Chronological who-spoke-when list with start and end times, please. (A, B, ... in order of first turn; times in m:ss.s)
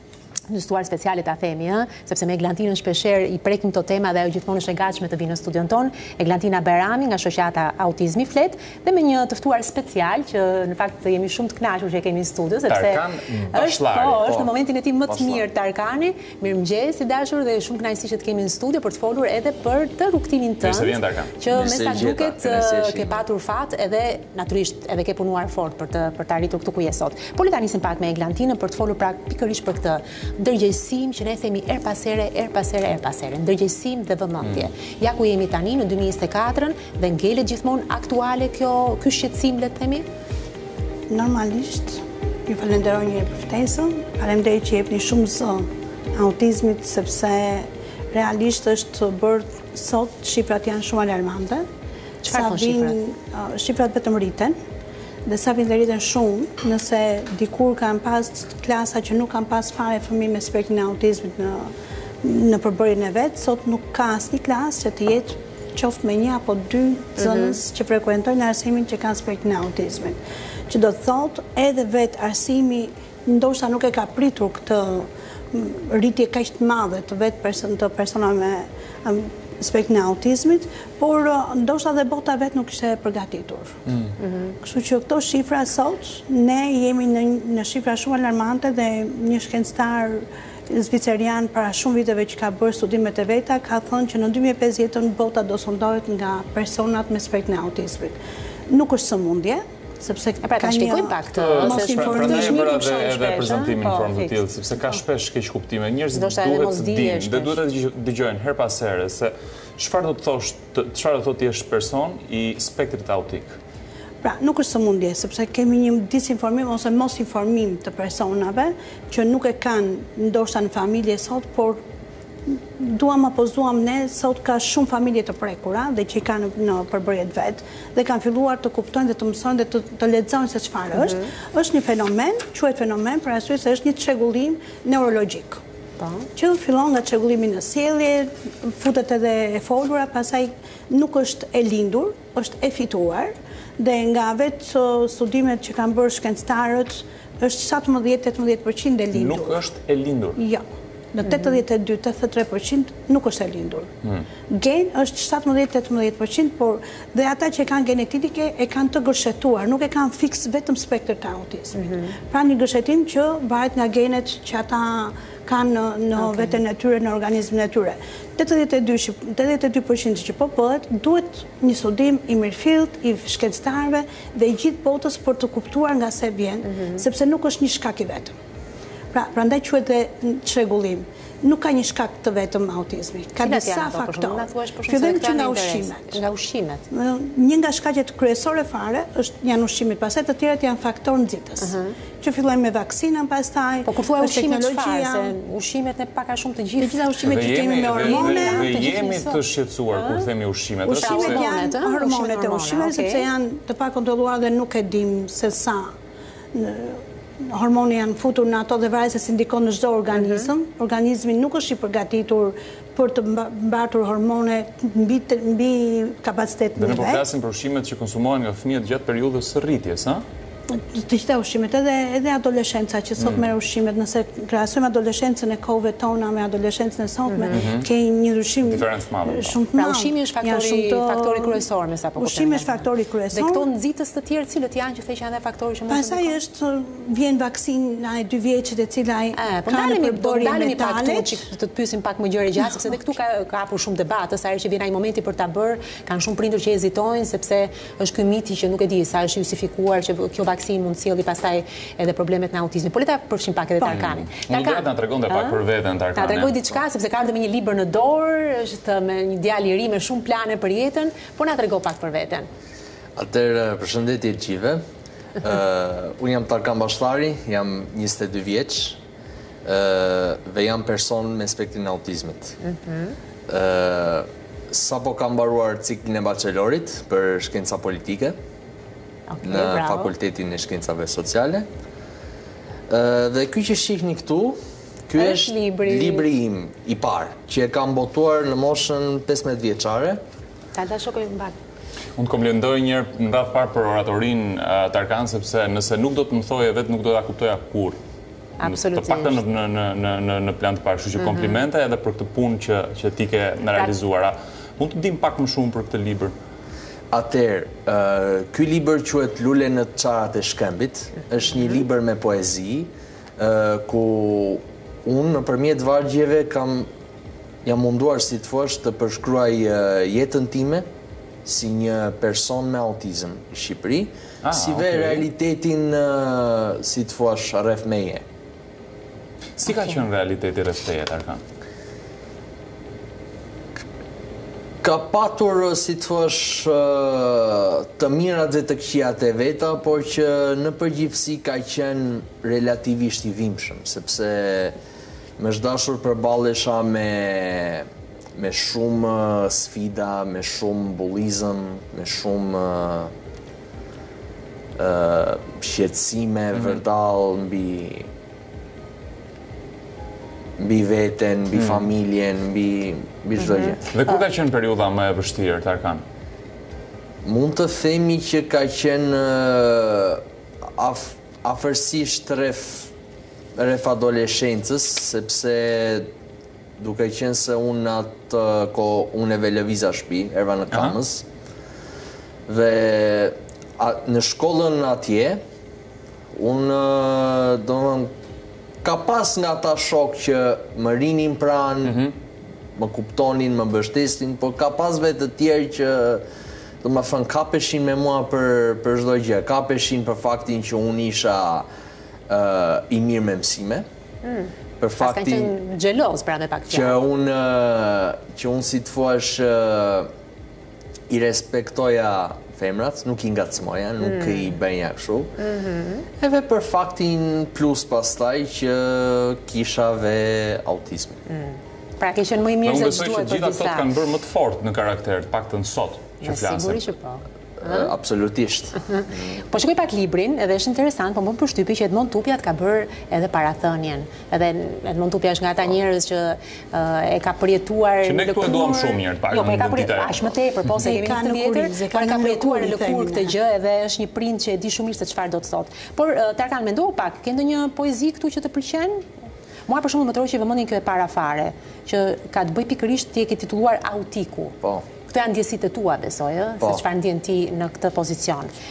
0:00.5-0:40.0 A
0:12.7-0:14.4 B
0:15.1-0:15.5 C
0:20.6-0:21.3 B
0:21.5-0:23.2 C
0:41.1-0:51.6 D
0:52.2-0:53.0 A
0:52.2-0:54.6 D
0:55.2-1:01.7 D
1:02.2-1:10.2 D
1:07.2-1:07.6 A
1:10.7-1:23.8 D
1:24.2-1:24.5 A
1:24.5-1:38.2 D
1:38.7-1:42.9 D
1:40.4-1:44.4 A
1:41.3-1:53.6 B
1:46.1-1:47.6 A
1:54.2-2:01.8 D
2:02.5-2:15.6 D
2:10.9-2:11.2 A
2:16.0-2:16.3 A
2:16.3-2:29.6 D
2:29.1-2:30.4 B
2:30.4-2:33.9 D
2:34.5-2:58.3 D
2:41.8-2:42.1 A
2:46.2-2:46.6 A
2:59.1-3:06.2 D
3:03.4-3:06.8 A
3:06.9-3:15.3 D
3:11.6-3:11.9 A
3:13.8-3:17.1 A
3:16.8-3:18.8 D
3:17.2-3:21.5 B
3:17.9-3:19.4 A
3:19.9-3:20.3 A
3:20.8-3:25.9 D
3:21.0-3:23.3 A
3:26.5-3:37.2 D
3:30.1-3:30.5 A
3:36.8-3:40.2 B
3:40.7-3:51.6 D
3:43.2-3:43.5 B
3:47.3-3:47.6 A
3:47.5-3:47.9 B
3:48.6-3:49.6 B
3:49.7-3:56.4 A
3:52.2-3:53.6 D
3:55.9-4:01.4 D
3:59.3-4:15.6 A
4:02.6-4:03.0 D
4:13.8-4:16.6 B
4:16.2-4:22.5 A
4:23.2-4:24.8 C
4:25.4-4:29.0 C
4:29.6-4:32.6 C
4:32.6-4:33.2 A
4:33.5-4:38.3 C
4:39.3-4:40.1 A
4:39.4-4:41.7 C
4:42.9-4:50.2 C
4:45.2-4:46.3 A
4:50.7-4:51.5 A
4:52.2-4:58.0 B
4:58.6-4:59.4 A
4:58.6-5:06.3 B
5:01.2-5:01.5 A
5:07.1-5:16.9 C
5:17.6-5:20.8 C
5:21.4-5:28.2 C
5:24.4-5:25.3 B
5:29.6-5:31.4 B
5:34.8-5:44.7 C
5:45.4-5:53.1 C
5:54.7-5:58.1 C
6:00.6-6:03.8 C
6:03.9-6:06.0 B
6:07.2-6:10.2 C
6:10.8-6:12.9 C
6:13.6-6:16.1 C
6:16.8-6:21.2 C
6:22.5-6:25.4 C
6:26.3-6:28.1 C
6:28.8-6:32.0 C
6:31.8-6:32.1 B
6:32.8-6:36.2 C
6:36.8-6:41.6 C
6:42.3-6:43.8 C
6:44.2-6:47.0 A
6:44.8-6:45.5 C
6:46.7-6:50.1 C
6:51.1-6:55.3 C
6:54.0-6:54.5 A
6:55.4-6:56.0 A
6:56.2-7:01.2 C
7:01.3-7:03.9 A
7:02.6-7:06.9 B
7:06.2-7:07.9 A
7:07.6-7:09.4 C
7:08.9-7:29.0 A
7:18.0-7:20.3 B
7:20.8-7:23.3 D
7:29.7-7:34.6 A
7:35.1-7:38.5 A